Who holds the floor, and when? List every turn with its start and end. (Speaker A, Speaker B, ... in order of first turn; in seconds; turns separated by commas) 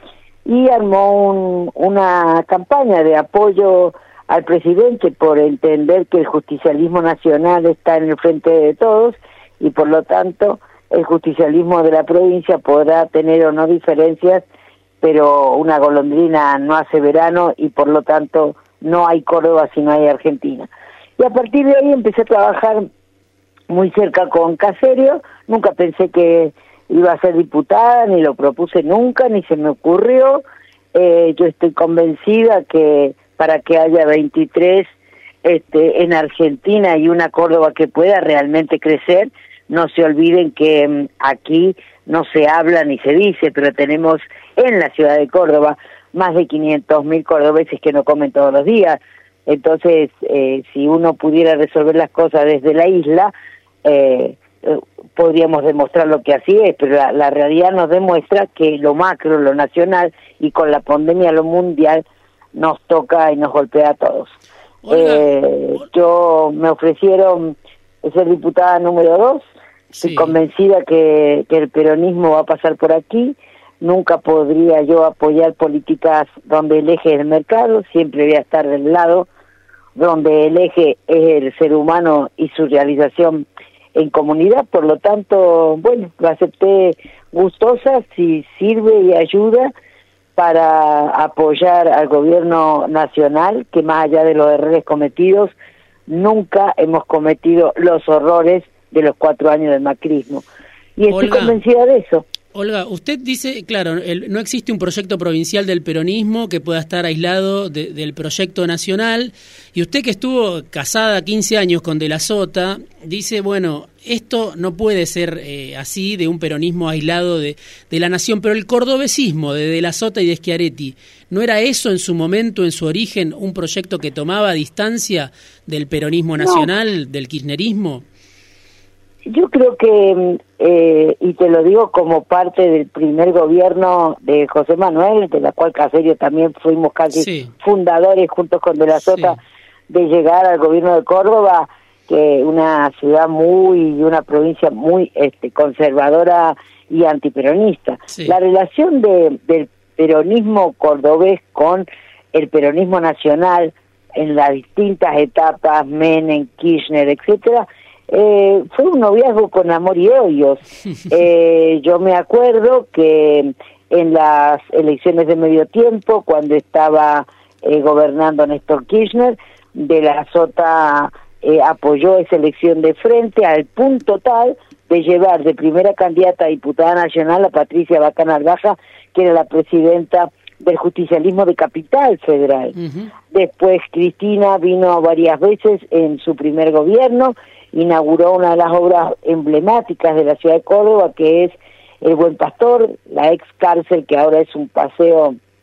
Speaker A: 0.5-14.4, Speaker A: 15.0-22.9, Speaker A: 23.7-30.4, Speaker A: 30.9-34.9, Speaker A: 35.4-53.3, Speaker A: 53.8-62.0, Speaker A: 62.5-64.3, Speaker B: 64.8-65.3, Speaker A: 64.9-69.4, Speaker B: 70.0-70.3, Speaker A: 70.0-79.3, Speaker A: 80.0-89.7, Speaker A: 90.4-95.5, Speaker A: 96.1-100.5, Speaker A: 101.0-102.2, Speaker B: 101.1-101.6, Speaker B: 102.5-128.1, Speaker A: 126.4-126.7, Speaker A: 129.2-182.8, Speaker B: 137.2-137.5, Speaker B: 182.8-183.1, Speaker A: 183.3-195.4